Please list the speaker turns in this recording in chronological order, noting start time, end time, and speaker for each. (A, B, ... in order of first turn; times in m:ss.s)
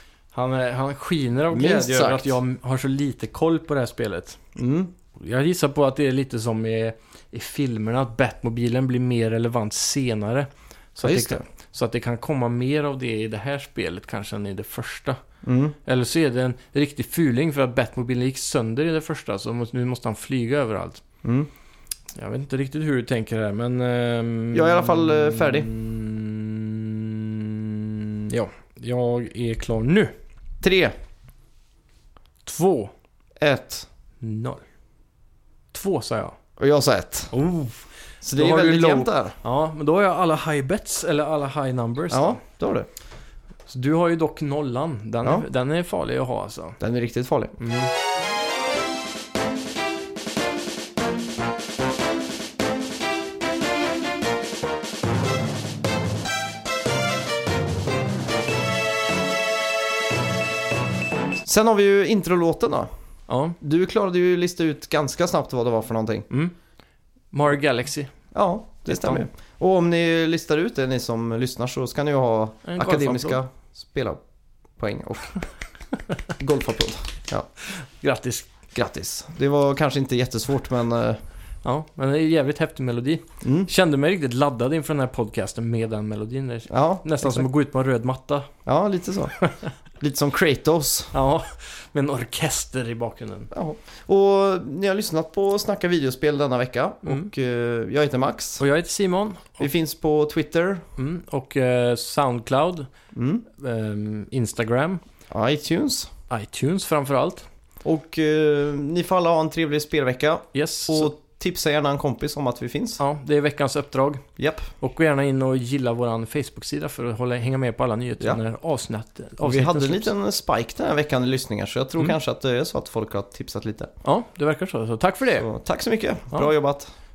0:00.3-0:04.4 A
0:01.5-0:02.4 B
0:04.6-0:04.9 B
0:05.2-0:15.2 A
0:11.0-0:11.4 B
0:15.4-0:15.8 B
0:15.8-0:21.0 A
0:21.2-0:21.5 B
0:22.2-0:30.2 A
0:24.5-0:25.7 B
0:30.6-0:31.0 B
0:32.4-0:32.9 A
0:33.4-0:33.9 B
0:34.2-0:34.6 A
0:35.7-0:36.4 A
0:36.6-0:37.3 B
0:37.3-0:42.4 A
0:38.2-0:39.4 B
0:42.1-0:42.9 B
0:43.7-0:46.8 A
0:46.8-0:47.6 B
0:47.6-0:47.9 A
1:01.4-1:02.9 B
1:03.3-1:03.6 A
1:03.6-1:06.3 B
1:07.3-1:08.1 A
1:08.3-1:14.2 B
1:08.8-1:09.3 A
1:12.6-1:13.4 A
1:14.8-1:15.4 B
1:16.4-1:17.5 B
1:17.6-1:18.5 A
1:18.7-1:21.2 B
1:21.6-1:28.5 A
1:23.4-1:23.7 B
1:26.7-1:27.5 B
1:28.7-1:29.4 B
1:30.0-1:31.1 B
1:31.1-1:33.5 A
1:33.5-1:38.6 B
1:38.6-1:39.7 A
1:39.6-1:40.9 B
1:41.0-1:42.9 A
1:43.1-1:43.4 B
1:43.5-1:45.0 A
1:45.3-1:46.1 B
1:46.3-1:47.5 A
1:47.8-1:53.0 B
1:50.5-1:51.1 A
1:53.0-1:54.3 A
1:54.4-1:54.7 B
1:54.8-2:00.1 A
1:59.4-2:03.9 B
2:04.0-2:05.5 A
2:05.4-2:06.9 B